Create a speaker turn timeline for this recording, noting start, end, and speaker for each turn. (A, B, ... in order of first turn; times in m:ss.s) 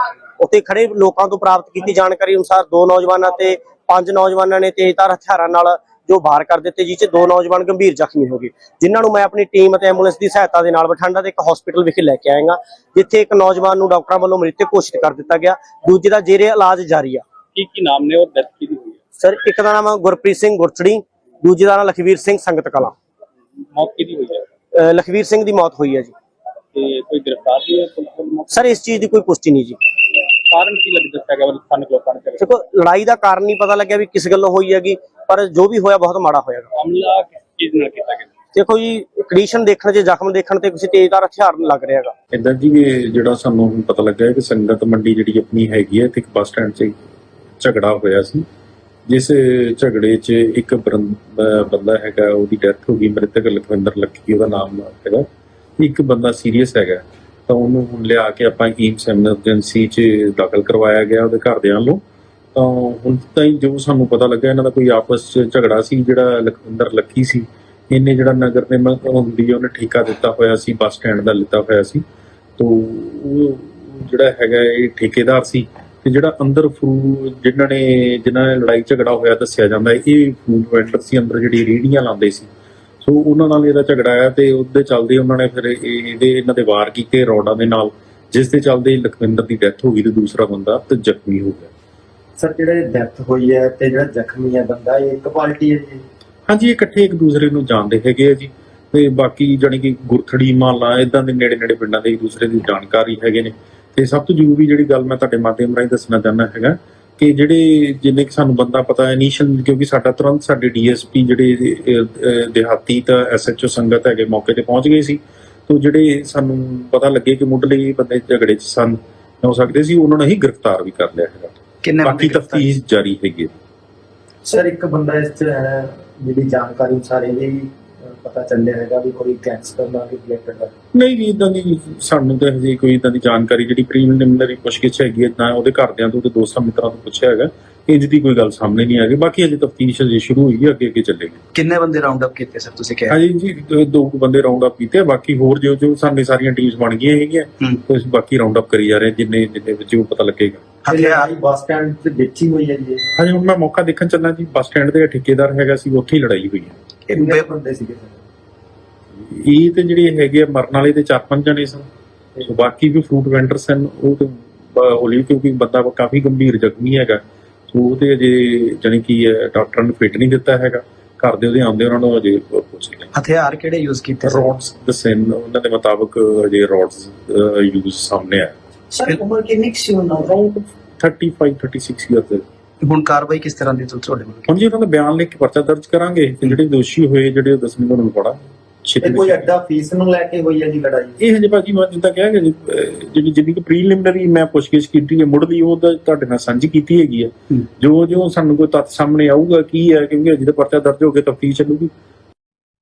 0:00.4-0:17.2 A
0:17.5-0:19.0 B
0:19.2-0:22.9 A
0:23.7-0:24.4 B
0:24.8-0:26.1 A
0:26.7-0:28.7 B
0:28.5-0:29.8 A
0:30.5-0:32.5 B
0:32.4-0:36.7 A
0:36.7-0:38.3 B
0:38.5-0:42.1 A
0:42.3-0:47.0 C
0:47.6-0:48.4 C
0:49.1-0:55.3 C
0:55.8-1:02.0 C
1:02.5-1:12.0 C
1:12.6-1:22.5 C
1:23.0-1:31.7 C
1:32.4-1:36.0 D
1:36.5-2:03.5 C
2:01.8-2:02.7 E
2:04.5-2:07.5 D
2:08.2-2:10.7 D
2:10.9-2:21.4 C
2:21.5-2:23.2 E
2:23.1-2:30.6 C
2:30.8-2:31.3 E
2:30.9-2:33.0 D
2:33.2-2:36.8 C
2:37.1-2:37.5 E
2:37.1-2:38.2 D
2:39.2-2:41.8 C
2:42.4-2:53.1 C
2:53.1-2:54.5 E
2:54.2-2:58.5 C
2:59.0-3:00.2 E
3:00.2-3:02.4 C
3:02.8-3:04.5 E
3:04.5-3:09.5 C
3:09.0-3:11.2 D
3:11.2-3:21.9 C